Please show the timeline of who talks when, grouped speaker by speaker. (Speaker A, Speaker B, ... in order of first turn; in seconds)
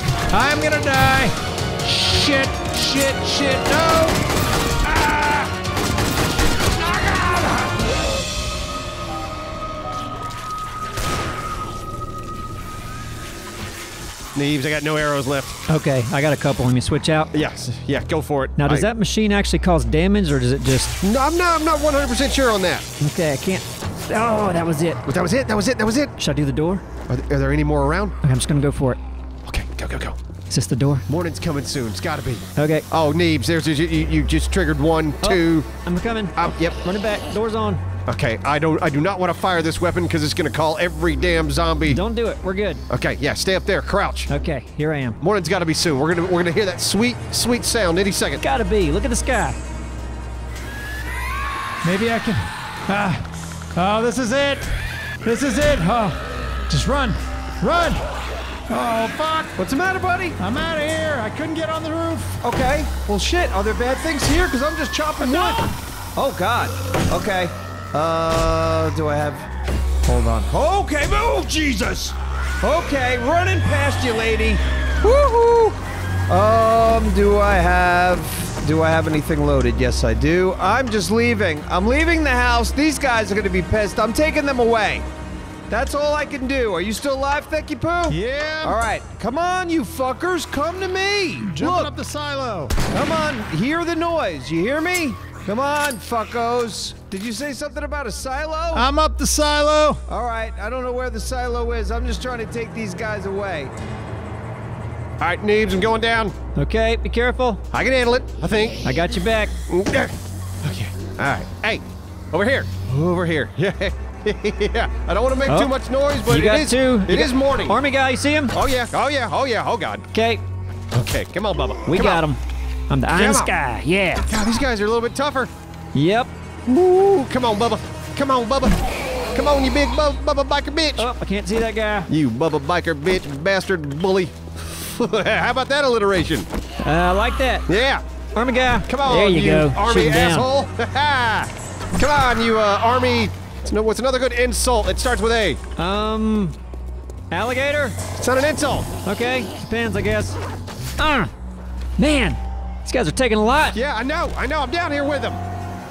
Speaker A: 0.3-4.2, 4.9-5.2, 51.8-54.7, 55.2-58.0, 58.7-59.5, 60.4-62.4, 65.2-65.7, 88.1-88.8, 91.4-92.8, 98.7-100.0
Speaker B: 14.3-15.6, 17.3-18.9, 21.0-22.9, 25.1-26.1, 27.1-28.2, 29.4-30.2, 31.1-35.7, 36.4-36.8, 38.1-42.0, 42.9-44.3, 45.2-48.4, 105.2-106.3, 107.7-109.0, 109.7-117.8, 118.5-120.0, 120.9-122.2, 123.1-123.5, 124.3-125.5, 126.7-128.8, 129.3-131.1, 132.1-136.5, 137.7-138.0, 138.9-145.6, 148.2-148.9, 153.7-155.4
Speaker C: 15.7-17.3, 18.6-20.9, 23.0-25.0, 26.2-26.8, 28.2-29.0, 30.5-31.1, 32.6-32.9, 35.2-37.8, 41.9-42.8, 44.3-45.2, 48.4-49.6, 106.6-107.6, 108.8-109.5, 115.5-115.7, 116.3-118.5, 120.1-120.4, 121.9-124.3, 126.0-126.3, 131.0-132.1, 136.8-137.6, 138.3-140.5, 145.8-146.6, 147.3-148.0, 149.1-150.4, 151.0-151.3, 152.0-153.8
Speaker D: 59.5-60.4, 62.4-69.5, 70.0-85.1, 85.7-91.9, 92.9-98.9, 100.1-103.7